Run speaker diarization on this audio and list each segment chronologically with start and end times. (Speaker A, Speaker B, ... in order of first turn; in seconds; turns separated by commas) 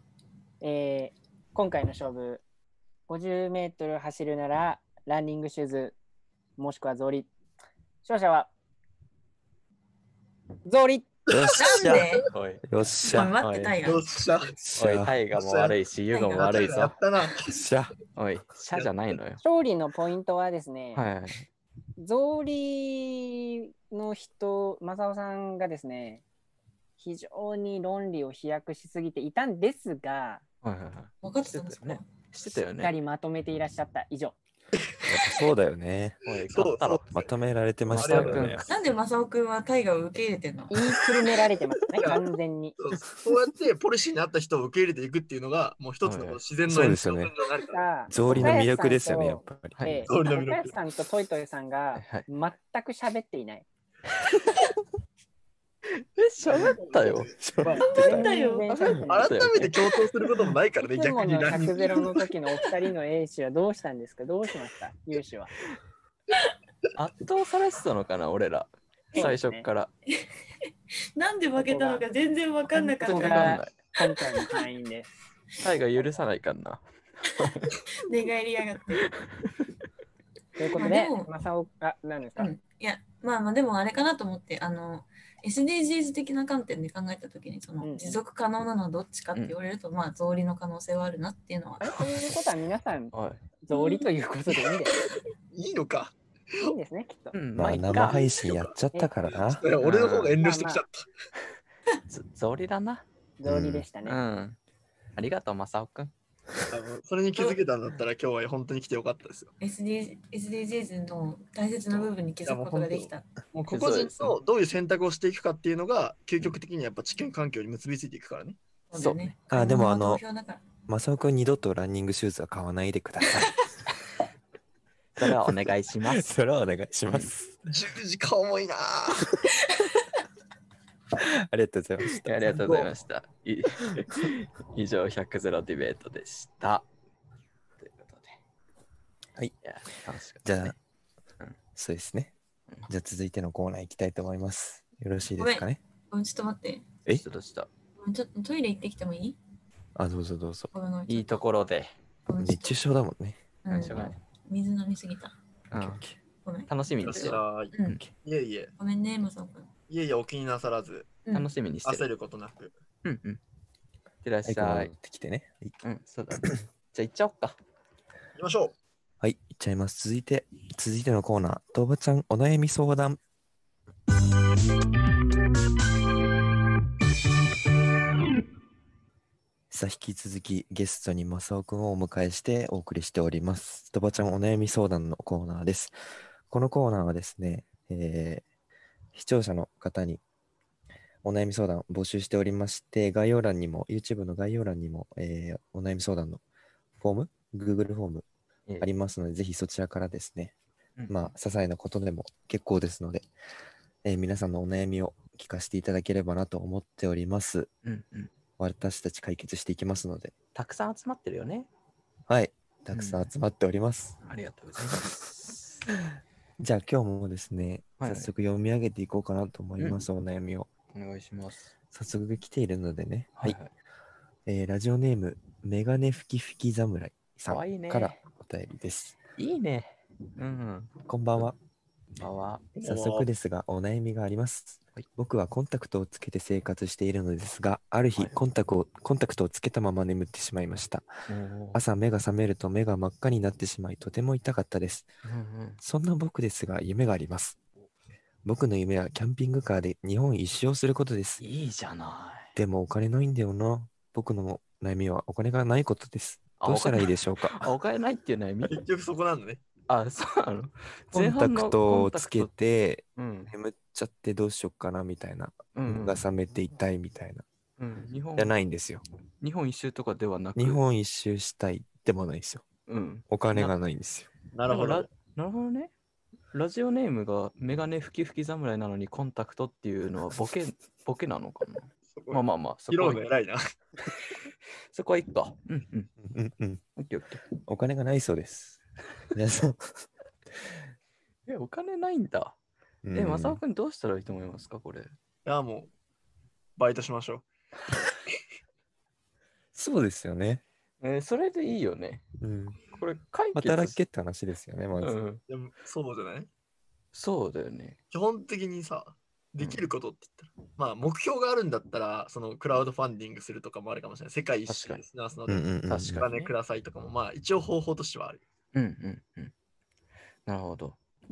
Speaker A: 0.6-2.4, Speaker A: 3.1-6.0, Speaker A: 6.6-7.3, Speaker A: 8.0-8.5, Speaker A: 10.6-11.1, Speaker B: 11.3-13.3, Speaker C: 11.3-12.1, Speaker D: 11.6-12.3, Speaker E: 12.3-13.9, Speaker D: 13.1-14.1, Speaker C: 13.8-14.6, Speaker B: 14.6-15.1, Speaker E: 14.8-16.9, Speaker C: 15.3-15.8, Speaker D: 16.1-16.5, Speaker C: 16.4-17.5, Speaker B: 17.4-17.9, Speaker E: 18.1-19.4, Speaker A: 19.4-21.0, Speaker E: 20.9-21.5, Speaker A: 22.0-26.2, Speaker A: 27.0-30.4, Speaker E: 30.6-32.9, Speaker D: 31.2-32.1, Speaker A: 32.8-34.4, Speaker B: 35.1-36.2, Speaker E: 36.2-37.1, Speaker C: 36.5-37.1, Speaker B: 37.1-38.7, Speaker E: 37.9-38.7, Speaker C: 37.9-38.8, Speaker D: 38.7-40.8, Speaker A: 40.7-42.8, Speaker C: 41.9-42.2, Speaker C: 42.8-47.8, Speaker E: 46.0-46.4, Speaker B: 46.7-47.3, Speaker A: 47.7-53.6, Speaker B: 48.1-49.8, Speaker E: 48.2-48.6, Speaker E: 49.8-50.0, Speaker C: 50.1-50.8, Speaker E: 51.9-52.3, Speaker E: 56.0-59.9, Speaker C: 56.4-58.2, Speaker B: 57.4-58.2, Speaker A: 57.6-59.4, Speaker D: 57.8-58.7, Speaker C: 59.1-62.3, Speaker A: 60.8-65.5, Speaker E: 66.9-69.9, Speaker A: 69.1-69.7, Speaker D: 71.1-73.6, Speaker A: 71.5-72.0, Speaker A: 72.7-75.1, Speaker E: 73.1-74.0, Speaker E: 75.6-77.7, Speaker D: 78.0-79.0, Speaker E: 79.1-79.5, Speaker A: 80.6-82.5, Speaker D: 80.8-81.3, Speaker D: 82.4-92.0, Speaker A: 87.8-88.2, Speaker A: 91.8-94.9, Speaker E: 93.1-93.4, Speaker D: 93.7-94.0, Speaker C: 95.5-96.1, Speaker A: 96.6-97.4, Speaker E: 97.3-98.3, Speaker B: 97.5-99.7, Speaker C: 98.0-98.7, Speaker C: 99.2-101.1, Speaker E: 99.8-100.4, Speaker A: 100.4-100.8, Speaker E: 102.1-103.0, Speaker A: 103.4-104.2, Speaker B: 103.4-103.9, Speaker E: 104.0-104.6, Speaker E: 105.2-106.1, Speaker C: 106.7-109.5, Speaker D: 109.6-113.3, Speaker C: 112.5-118.6, Speaker E: 113.7-114.4, Speaker D: 118.9-120.6, Speaker E: 118.9-119.3, Speaker B: 119.5-120.2, Speaker B: 120.9-123.6, Speaker E: 125.2-126.3, Speaker B: 125.2-125.5, Speaker B: 126.1-127.5, Speaker C: 127.7-129.4, Speaker B: 131.2-132.8, Speaker E: 132.0-136.9, Speaker C: 132.6-132.9, Speaker B: 133.9-134.2, Speaker E: 137.8-138.3, Speaker E: 139.6-140.8, Speaker B: 140.4-140.7, Speaker B: 141.8-142.3, Speaker B: 142.9-145.8, Speaker D: 145.4-146.8, Speaker E: 147.1-147.7, Speaker D: 148.0-149.4, Speaker B: 149.9-150.7, Speaker D: 150.7-151.4, Speaker E: 151.1-151.9, Speaker D: 152.3-152.8, Speaker B: 152.4-153.4, Speaker D: 153.6-155.3, Speaker E: 153.7-154.1, Speaker E: 155.7-156.0, Speaker B: 155.8-156.1, Speaker D: 156.4-158.0, Speaker E: 156.7-158.0, Speaker C: 157.0-158.7, Speaker D: 158.8-159.7, Speaker C: 159.9-161.1, Speaker E: 161.3-162.1, Speaker C: 161.8-162.7, Speaker E: 163.0-163.4, Speaker E: 164.2-164.9, Speaker B: 164.4-165.8, Speaker E: 165.8-167.6, Speaker C: 168.4-168.7, Speaker B: 169.2-173.2, Speaker B: 179.7-185.9, Speaker B: 186.5-188.4, Speaker B: 189.1-190.2, Speaker B: 191.2-196.4, Speaker B: 197.0-198.2, Speaker B: 198.8-200.5, Speaker E: 201.0-201.3, Speaker B: 201.1-203.3, Speaker B: 204.0-207.7, Speaker E: 207.8-208.3, Speaker B: 208.6-210.3, Speaker E: 210.5-211.7, Speaker B: 212.3-214.2, Speaker E: 212.9-213.3, Speaker E: 214.2-215.8, Speaker B: 216.6-220.7, Speaker E: 218.0-218.3, Speaker E: 220.9-221.7, Speaker B: 221.9-223.6, Speaker E: 223.3-223.7, Speaker B: 224.4-229.2, Speaker E: 227.4-228.2, Speaker E: 229.4-231.4, Speaker B: 231.0-231.6, Speaker E: 232.2-232.7, Speaker B: 232.8-241.1, Speaker C: 232.8-233.3, Speaker E: 241.3-241.8, Speaker B: 241.7-245.1, Speaker E: 245.2-245.8, Speaker B: 245.8-247.6, Speaker B: 248.4-251.4, Speaker E: 251.4-252.5, Speaker B: 252.6-257.7, Speaker E: 256.6-258.8, Speaker C: 258.7-259.6, Speaker E: 259.9-262.5, Speaker B: 261.1-267.4, Speaker E: 263.2-263.5, Speaker E: 265.7-266.2, Speaker E: 267.8-268.5, Speaker B: 268.4-269.0, Speaker E: 269.4-270.8, Speaker B: 270.6-272.6, Speaker E: 272.9-273.7, Speaker B: 273.3-274.3, Speaker C: 274.5-275.1, Speaker E: 274.6-275.9, Speaker E: 276.5-283.2, Speaker C: 282.1-283.6, Speaker E: 284.9-286.1, Speaker B: 286.2-286.8, Speaker E: 287.0-287.4, Speaker B: 287.6-288.8, Speaker B: 289.3-290.0, Speaker E: 291.5-292.6, Speaker B: 293.0-293.6, Speaker E: 293.1-295.1, Speaker C: 295.4-295.9, Speaker C: 296.8-297.4, Speaker B: 299.7-300.6, Speaker E: 301.0-302.2, Speaker B: 302.4-302.8, Speaker E: 302.9-304.0, Speaker B: 303.5-305.2, Speaker E: 305.0-305.4, Speaker C: 305.5-306.5, Speaker E: 307.1-308.0, Speaker C: 308.1-318.4, Speaker E: 309.6-309.9, Speaker E: 314.7-315.0, Speaker B: 315.5-316.3, Speaker E: 315.9-316.5, Speaker E: 318.7-319.5, Speaker E: 320.4-321.0